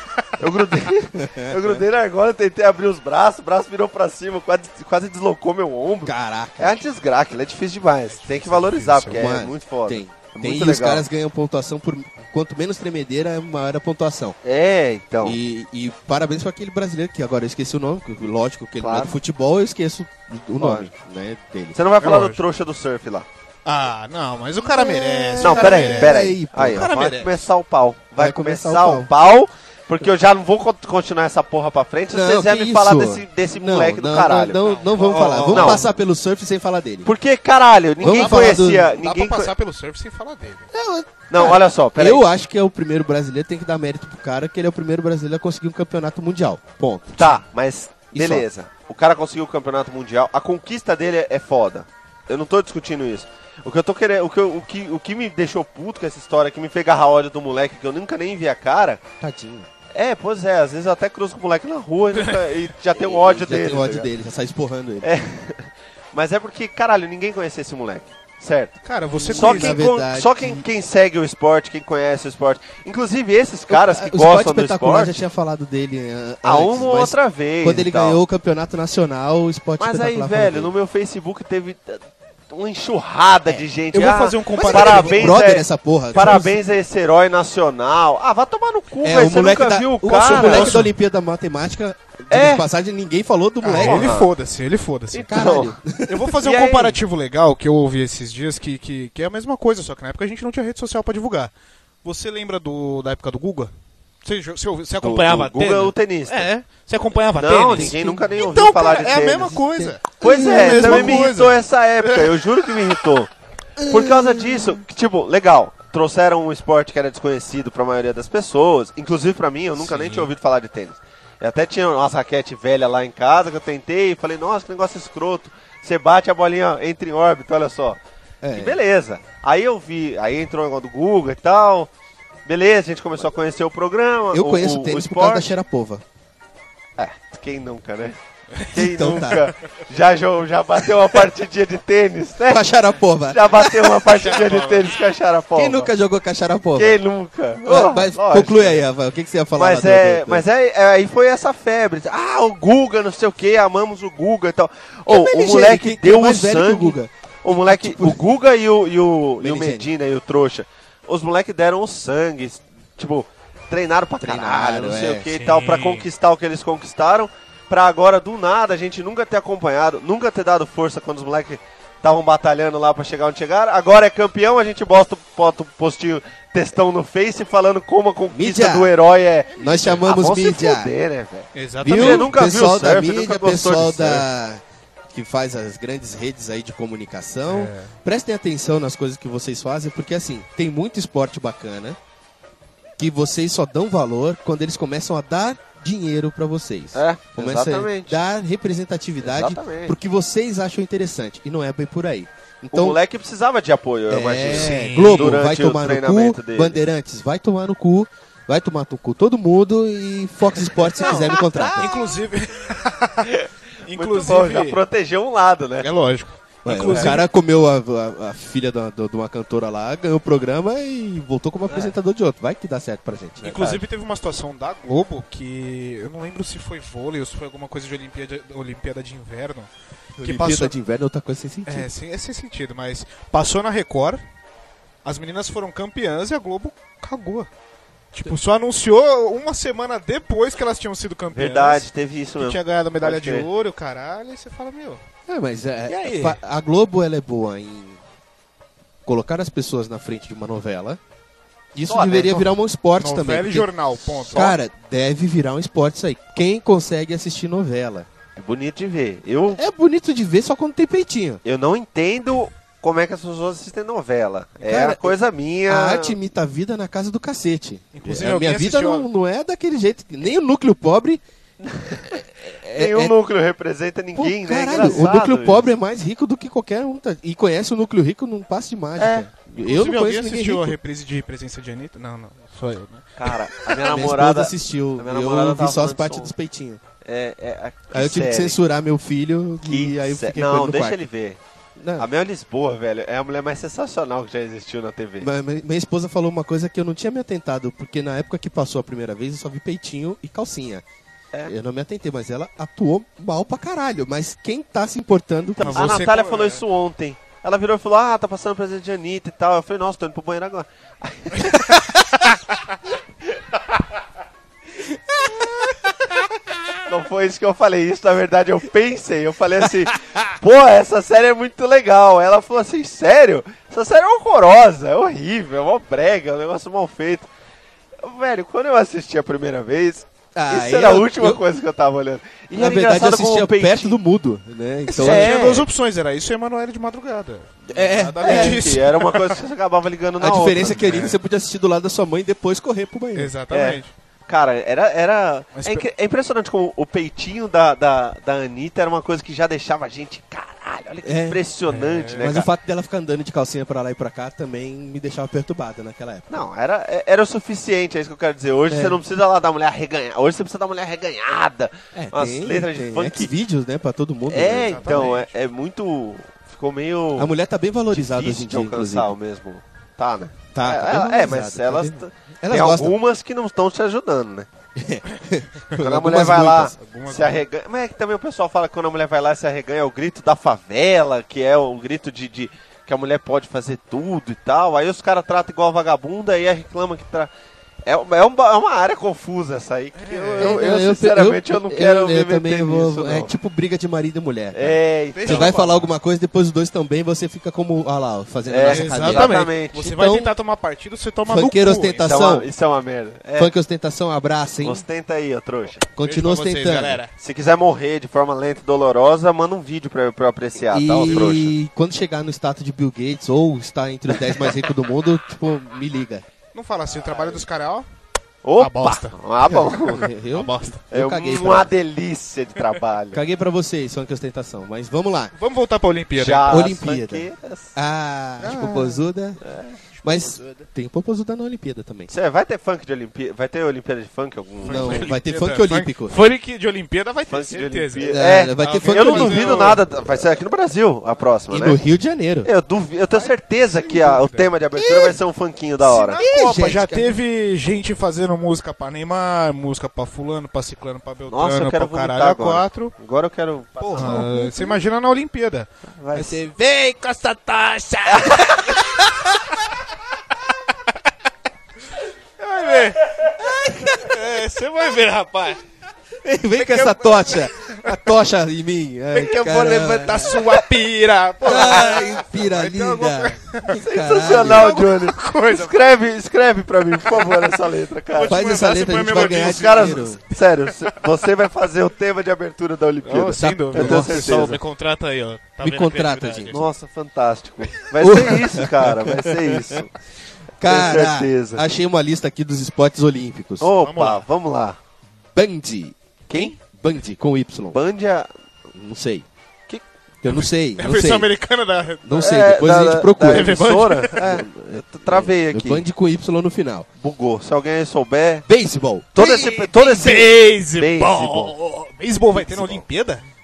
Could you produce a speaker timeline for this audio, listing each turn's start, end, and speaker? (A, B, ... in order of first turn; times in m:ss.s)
0:00.4-0:11.0 A
0:01.2-0:01.8 B
0:06.0-0:06.8 B
0:08.1-0:09.2 C
0:09.1-0:14.4 B
0:14.4-0:15.4 A
0:15.2-0:21.8 B
0:18.8-0:19.2 A
0:20.6-0:20.9 A
0:21.7-0:23.3 A
0:22.0-0:22.4 C
0:23.6-0:26.2 C
0:24.6-0:27.3 B
0:25.4-0:34.6 A
0:28.2-0:29.1 B
0:32.1-0:37.1 B
0:34.6-0:35.9 C
0:35.4-0:35.8 A
0:37.0-0:39.5 A
0:38.0-0:38.9 B
0:38.0-0:40.7 C
0:40.7-0:47.4 B
0:41.3-0:42.2 A
0:47.2-0:59.0 A
0:48.1-0:48.5 B
0:59.2-0:59.7 B
0:59.9-1:04.1 A
1:02.1-1:02.6 C
1:03.0-1:05.1 B
1:05.0-1:15.2 A
1:08.8-1:09.8 C
1:09.2-1:10.7 B
1:13.7-1:20.7 B
1:16.4-1:18.2 A
1:19.8-1:30.8 A
1:23.9-1:25.4 C
1:24.6-1:26.6 B
1:29.0-1:34.2 B
1:30.3-1:30.9 C
1:32.3-1:32.6 A
1:33.6-1:41.5 C
1:33.7-1:34.3 A
1:35.1-1:35.8 A
1:35.3-1:36.3 B
1:36.4-1:37.0 A
1:42.0-1:43.7 C
1:44.2-1:52.4 C
1:45.0-1:46.5 A
1:47.4-1:49.6 A
1:47.7-1:48.3 B
1:49.7-1:51.3 B
1:50.2-1:53.3 A
1:53.8-1:54.8 B
1:53.9-2:08.0 A
1:59.8-2:00.3 C
2:08.4-2:08.8 B
2:08.5-2:11.9 A
2:12.5-2:15.6 A
2:14.3-2:16.0 B
2:17.0-2:22.7 A
2:18.7-2:19.5 B
2:22.5-2:24.0 B
2:23.3-2:25.9 A
2:24.1-2:25.0 C
2:25.6-2:27.0 B
2:26.8-2:28.8 A
2:27.6-2:30.4 B
2:29.6-3:04.3 A
2:35.1-2:38.2 B
2:39.4-2:39.9 B
2:44.2-2:45.3 B
2:45.3-2:46.1 C
2:58.3-2:59.0 B
2:59.5-3:00.9 B
2:59.7-3:00.0 C
3:01.5-3:02.4 C
3:01.8-3:12.0 B
3:07.5-3:07.9 C
3:13.0-3:23.0 B
3:17.0-3:18.2 A
3:19.2-3:20.0 A
3:22.7-3:26.8 A
3:24.1-3:31.9 B
3:24.5-3:25.4 C
3:31.0-3:31.9 A
3:31.0-3:34.8 C
3:33.2-3:35.9 A
3:35.8-3:37.3 C
3:36.6-3:43.6 B
3:36.9-3:37.2 A
3:43.4-3:43.8 A
3:43.4-3:49.7 C
3:50.2-3:51.9 B
3:50.2-3:50.8 C
3:51.7-3:54.2 C
3:55.0-3:57.5 C
3:58.1-4:05.0 C
4:01.3-4:03.5 A
4:05.3-4:08.0 B
4:05.9-4:06.4 C
4:09.0-4:11.0 B
4:11.7-4:13.7 B
4:11.9-4:12.5 A
4:13.0-4:14.6 C
4:14.2-4:18.1 B
4:18.4-4:19.6 A
4:19.6-4:21.4 B
4:21.4-4:26.2 A
4:24.6-4:25.2 B
4:25.7-4:31.2 B
4:27.9-4:29.1 C
4:31.6-4:35.7 A
4:32.1-4:33.2 B
4:34.2-4:40.8 B
4:39.0-4:39.3 A
4:39.5-4:43.8 C
4:43.2-4:46.3 A
4:43.8-4:46.8 B
4:47.0-4:48.6 A
4:47.9-4:51.0 B
4:49.6-4:51.4 A
4:51.8-4:52.1 B
4:52.0-4:55.3 A
4:55.2-5:00.8 B
5:01.4-5:06.1 B
5:05.6-5:06.6 C
5:05.7-5:11.8 A
5:16.9-5:27.3 A
5:28.0-5:34.0 A
5:30.4-5:31.4 B
5:32.6-5:35.6 B
5:34.9-5:39.4 C
5:35.0-5:35.7 A
5:37.7-5:38.8 B
5:38.2-5:41.2 A
5:40.2-5:43.3 B
5:40.7-5:41.2 C
5:43.2-5:43.9 C
5:43.5-5:52.5 A
5:45.6-5:45.9 C
5:51.0-5:51.4 B
5:51.7-5:52.4 C
5:52.2-5:56.4 B
5:56.3-6:03.3 A
5:58.7-5:59.0 B
6:02.0-6:05.1 B
6:04.3-6:07.3 A
6:04.6-6:05.4 C
6:07.2-6:09.1 B
6:07.9-6:14.5 A
6:10.5-6:13.0 B
6:14.8-6:16.8 B
6:15.8-6:27.3 A
6:16.7-6:17.4 C
6:27.8-6:33.3 A
6:30.0-6:30.7 C
6:30.4-6:40.3 B
6:34.5-6:35.6 A
6:35.2-6:35.9 C
6:38.5-6:39.9 A
6:38.7-6:42.2 C
6:41.3-6:42.5 B
6:42.0-6:43.5 A
6:43.4-6:44.8 B
6:44.6-6:45.9 A
6:46.0-6:47.0 B
6:46.0-6:47.1 C
6:47.2-6:51.5 A
6:50.7-6:56.2 B
6:56.5-6:57.9 C
6:57.0-6:57.4 A
6:58.4-7:00.1 A
6:58.6-6:59.2 C
6:59.5-7:01.7 B
6:59.9-7:00.8 C
7:00.9-7:03.2 A
7:03.1-7:05.3 B
7:05.4-7:06.7 C
7:06.2-7:07.8 A
7:06.5-7:09.4 B
7:08.4-7:09.0 C
7:09.4-7:09.8 A
7:09.9-7:10.7 C
7:10.0-7:12.1 B
7:12.1-7:15.1 A
7:14.6-7:19.8 C
7:14.6-7:16.2 B
7:17.3-7:21.8 A
7:18.0-7:20.0 B
7:21.5-7:22.5 B
7:22.4-7:26.2 A
7:23.1-7:24.5 C
7:24.8-7:25.2 B
7:25.8-7:32.9 C
7:26.2-7:27.2 B
7:31.3-7:34.3 A
7:33.8-7:39.6 C
7:34.0-7:34.8 B
7:36.0-7:36.4 A
7:38.1-7:38.8 A
7:42.4-7:45.6 C
7:43.4-7:44.1 B
7:46.2-7:50.6 B
7:46.6-7:48.0 C
7:49.1-7:55.8 C
7:51.4-7:54.8 B
7:53.7-8:04.6 A
7:57.1-7:57.4 C
7:58.1-8:01.0 C
7:58.2-8:00.2 B
8:03.0-8:06.7 C
8:03.3-8:04.6 B
8:05.6-8:06.6 B
8:06.5-8:09.9 A
8:08.0-8:09.8 B
8:10.6-8:13.7 B
8:10.6-8:11.6 A
8:13.6-8:14.8 A
8:13.8-8:14.3 C
8:15.4-8:17.8 B
8:16.3-8:16.6 A
8:17.7-8:18.3 A
8:18.7-8:19.3 B
8:20.2-8:21.3 B
8:20.3-8:22.4 C
8:22.0-8:23.6 B
8:22.2-8:25.8 A
8:23.2-8:24.2 C
8:24.2-8:26.9 B
8:27.0-8:28.5 A
8:28.5-8:29.2 B
8:29.1-8:31.5 A
8:29.2-8:33.2 C
8:32.4-8:32.8 A